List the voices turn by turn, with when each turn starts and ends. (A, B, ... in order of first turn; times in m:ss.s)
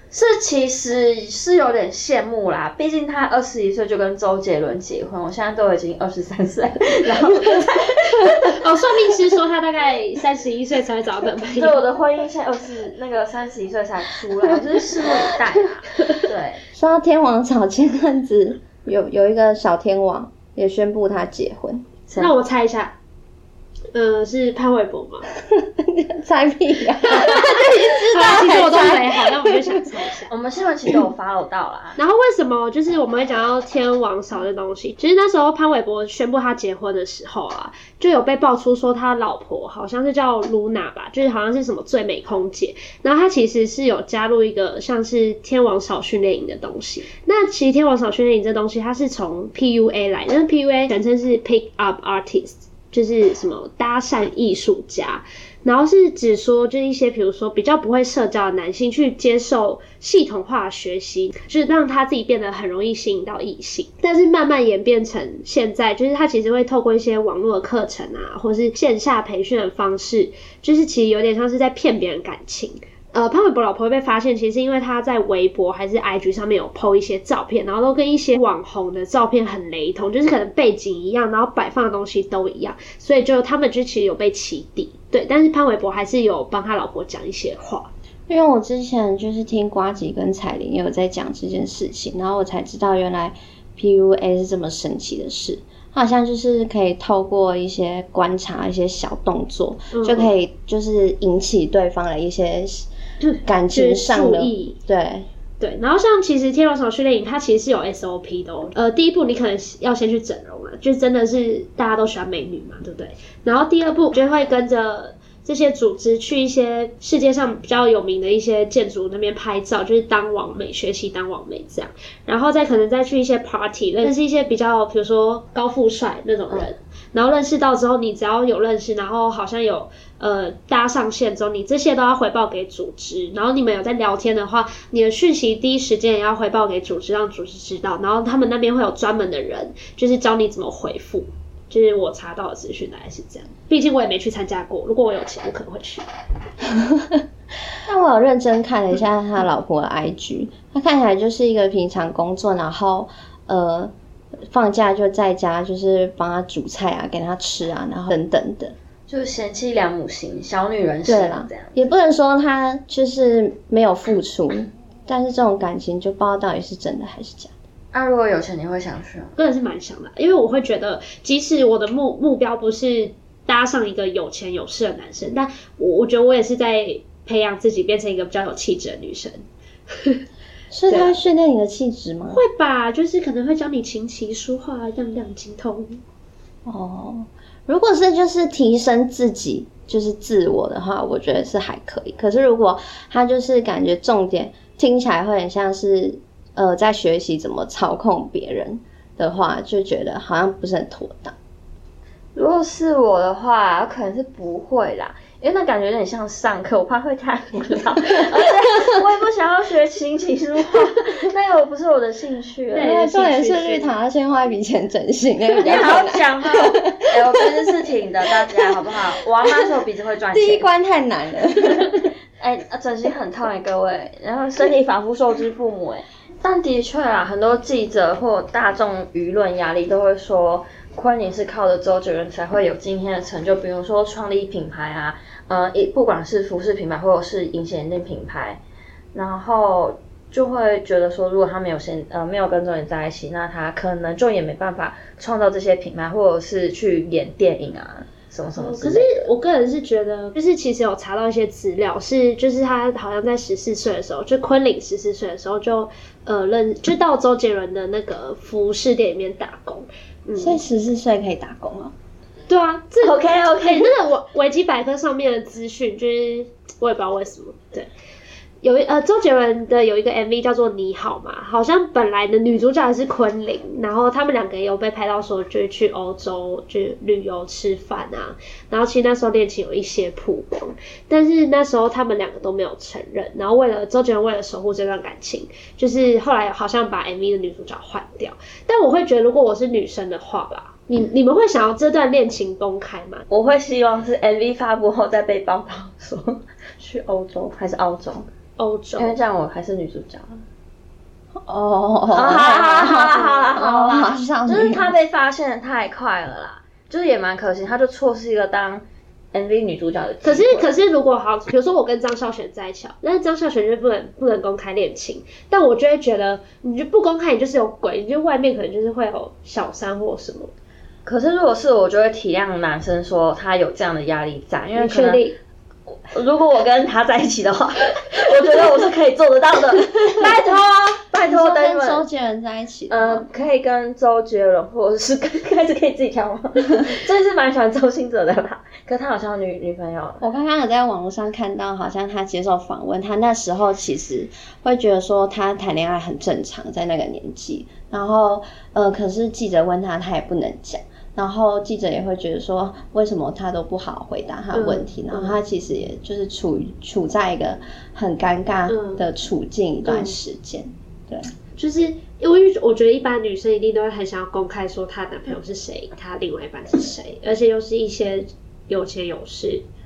0:00.1-0:08.6 A
0:08.2-0:11.8 B
0:11.5-0:16.6 A
0:16.7-0:21.8 C
0:22.1-0:22.3 A
0:22.2-0:22.9 B
0:23.9-0:25.3 B
0:25.5-0:29.6 C
0:27.0-0:30.3 B
0:30.3-0:32.0 A
0:32.0-1:27.9 B
1:28.3-1:42.9 C
1:39.9-1:40.3 B
1:43.2-1:44.8 B
1:43.4-1:45.3 C
1:45.6-2:26.0 B
2:26.7-2:27.2 C
2:27.8-2:38.7 C
2:39.1-2:41.8 A
2:41.0-2:47.5 C
2:47.9-2:49.3 A
2:49.4-3:00.2 B
3:00.7-3:02.4 C
3:00.9-3:01.2 B
3:02.3-3:06.0 B
3:06.6-3:21.3 C
3:22.3-3:32.9 A
3:32.7-3:33.9 B
3:32.8-3:37.7 C
3:35.6-3:40.7 A
3:38.3-3:38.9 C
3:40.3-3:42.1 C
3:41.8-3:58.6 A
3:59.1-4:09.3 A
4:08.6-4:20.6 B
4:20.4-4:21.9 C
4:22.5-4:27.9 B
4:23.0-4:23.9 A
4:28.6-4:53.2 B
4:53.3-4:58.3 A
4:58.6-4:59.2 B
4:59.0-5:00.4 A
5:01.3-5:04.9 C
5:02.1-5:10.7 A
5:02.5-5:03.6 B
5:10.2-5:20.5 B
5:21.0-5:25.2 A
5:24.8-5:25.3 B
5:26.1-5:32.0 A
5:31.2-5:33.3 C
5:32.9-5:40.2 A
5:40.2-6:01.3 C
5:54.5-5:55.4 B
5:58.7-5:59.0 B
5:59.9-6:00.1 B
6:01.6-6:09.6 B